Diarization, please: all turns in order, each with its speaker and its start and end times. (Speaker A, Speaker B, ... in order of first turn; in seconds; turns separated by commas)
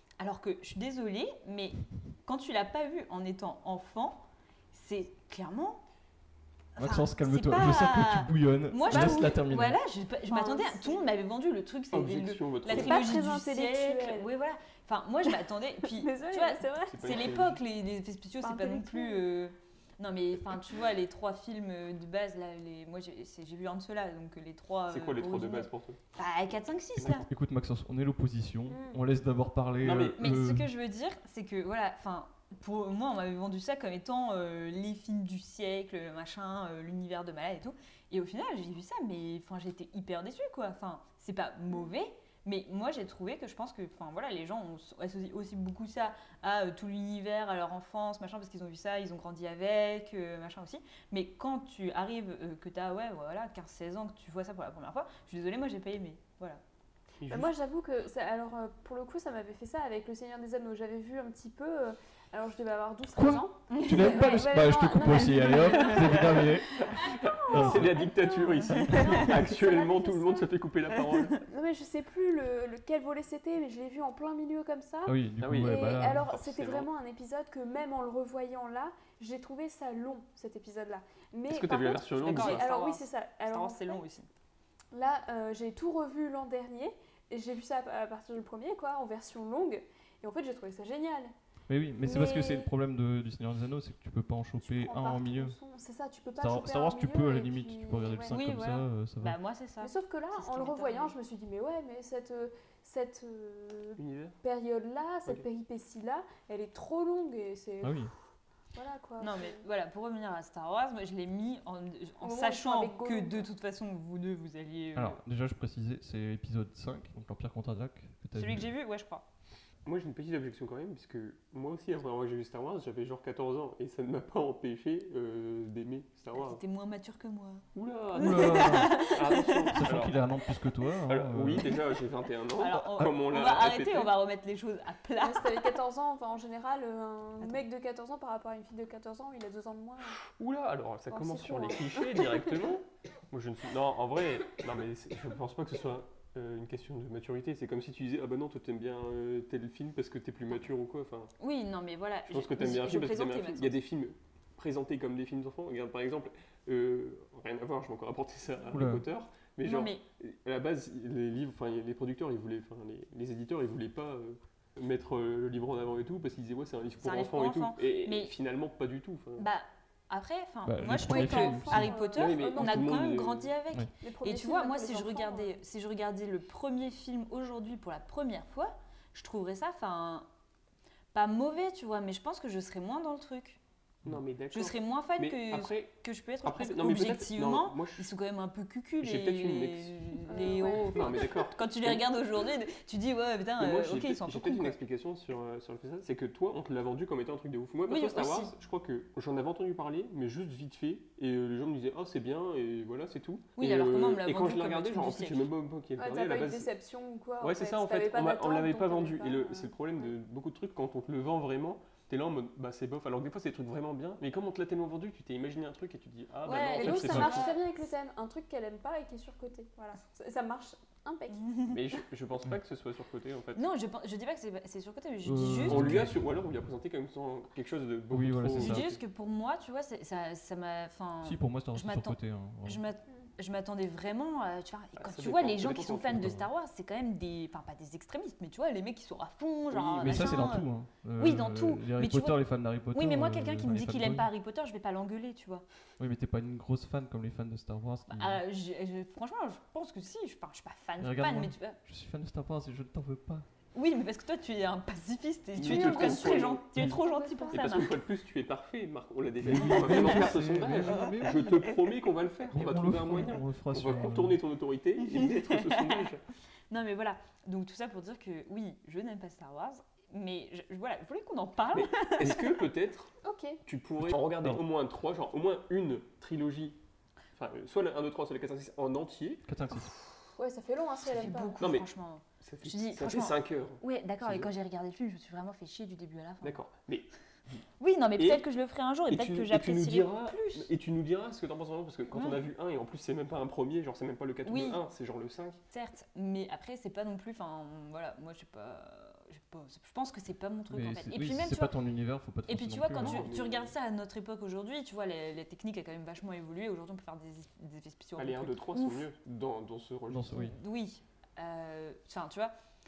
Speaker A: 0.2-5.8, Speaker B: 6.8-9.8, Speaker A: 6.8-27.3, Speaker C: 8.9-9.3, Speaker C: 10.3-11.1, Speaker D: 11.9-13.1, Speaker C: 12.7-14.3, Speaker C: 15.8-17.2, Speaker D: 16.9-17.6, Speaker C: 18.4-19.3, Speaker D: 24.9-26.0, Speaker D: 27.0-27.2, Speaker B: 27.0-30.7, Speaker C: 28.7-29.0, Speaker D: 29.8-30.2, Speaker A: 30.2-56.6, Speaker D: 57.2-57.5, Speaker C: 57.3-70.5, Speaker B: 63.1-68.0, Speaker A: 63.7-64.5, Speaker A: 65.2-66.1, Speaker D: 67.3-71.4, Speaker A: 68.9-69.3, Speaker C: 71.4-84.0, Speaker B: 75.1-76.2, Speaker D: 75.4-76.9, Speaker D: 81.5-82.6, Speaker A: 82.2-84.3, Speaker C: 84.9-91.3, Speaker B: 91.7-95.6, Speaker C: 92.0-92.7, Speaker C: 94.6-98.3, Speaker B: 96.4-99.4, Speaker A: 98.3-101.2, Speaker C: 99.8-108.1, Speaker D: 104.0-104.4, Speaker B: 107.8-108.1, Speaker C: 108.7-109.7, Speaker A: 109.2-115.2, Speaker C: 112.2-113.5, Speaker B: 114.9-118.7, Speaker A: 118.3-119.3, Speaker D: 119.8-126.6, Speaker A: 126.3-127.7, Speaker D: 127.8-130.2, Speaker B: 128.1-129.1, Speaker A: 128.2-129.9, Speaker B: 129.7-131.7, Speaker D: 130.9-134.2, Speaker A: 132.6-135.8, Speaker C: 135.2-140.2, Speaker D: 140.4-151.3, Speaker C: 141.1-142.3, Speaker A: 151.4-153.8, Speaker D: 152.3-169.5, Speaker B: 158.7-159.1, Speaker A: 159.6-160.0, Speaker A: 167.0-168.3, Speaker A: 169.4-180.3, Speaker B: 170.7-171.9, Speaker C: 171.0-173.0, Speaker D: 172.1-173.5, Speaker C: 174.0-175.5, Speaker A: 181.1-183.6, Speaker D: 184.1-188.1, Speaker A: 184.5-194.8, Speaker D: 189.0-192.1, Speaker C: 190.3-191.4, Speaker D: 193.6-206.7, Speaker A: 197.9-198.5, Speaker A: 203.6-205.5, Speaker C: 206.0-210.1, Speaker D: 207.4-217.6, Speaker A: 216.4-217.7, Speaker C: 216.6-221.4, Speaker B: 217.0-217.4, Speaker A: 221.3-221.8, Speaker D: 221.7-223.6, Speaker A: 223.6-226.0, Speaker B: 225.2-226.3, Speaker D: 225.5-229.0, Speaker B: 228.1-228.9, Speaker A: 228.6-245.6, Speaker B: 231.2-232.8, Speaker D: 235.0-236.4, Speaker B: 236.2-236.4, Speaker D: 239.7-240.5, Speaker B: 240.0-244.3, Speaker B: 246.0-248.4, Speaker A: 248.1-251.8, Speaker B: 251.0-253.5, Speaker A: 253.7-257.9, Speaker D: 255.6-256.7, Speaker C: 255.6-257.9, Speaker D: 257.5-266.2, Speaker B: 259.4-261.4, Speaker A: 259.5-261.6, Speaker B: 262.5-264.4, Speaker A: 265.2-265.9, Speaker A: 266.7-272.5, Speaker D: 271.7-273.1, Speaker C: 273.2-273.6, Speaker D: 273.6-276.8, Speaker B: 274.0-274.6, Speaker D: 277.4-279.5, Speaker B: 279.4-279.9, Speaker C: 280.4-281.6, Speaker A: 281.1-286.6, Speaker D: 281.6-281.9, Speaker D: 282.4-284.5, Speaker D: 286.4-287.6, Speaker A: 287.8-290.7, Speaker D: 288.2-288.4, Speaker D: 289.1-295.6, Speaker A: 292.1-292.5, Speaker A: 294.4-294.8, Speaker A: 295.7-301.8, Speaker B: 300.7-303.3, Speaker A: 302.5-309.1, Speaker D: 302.9-303.8, Speaker D: 308.2-310.4, Speaker B: 310.1-310.6, Speaker A: 310.3-312.5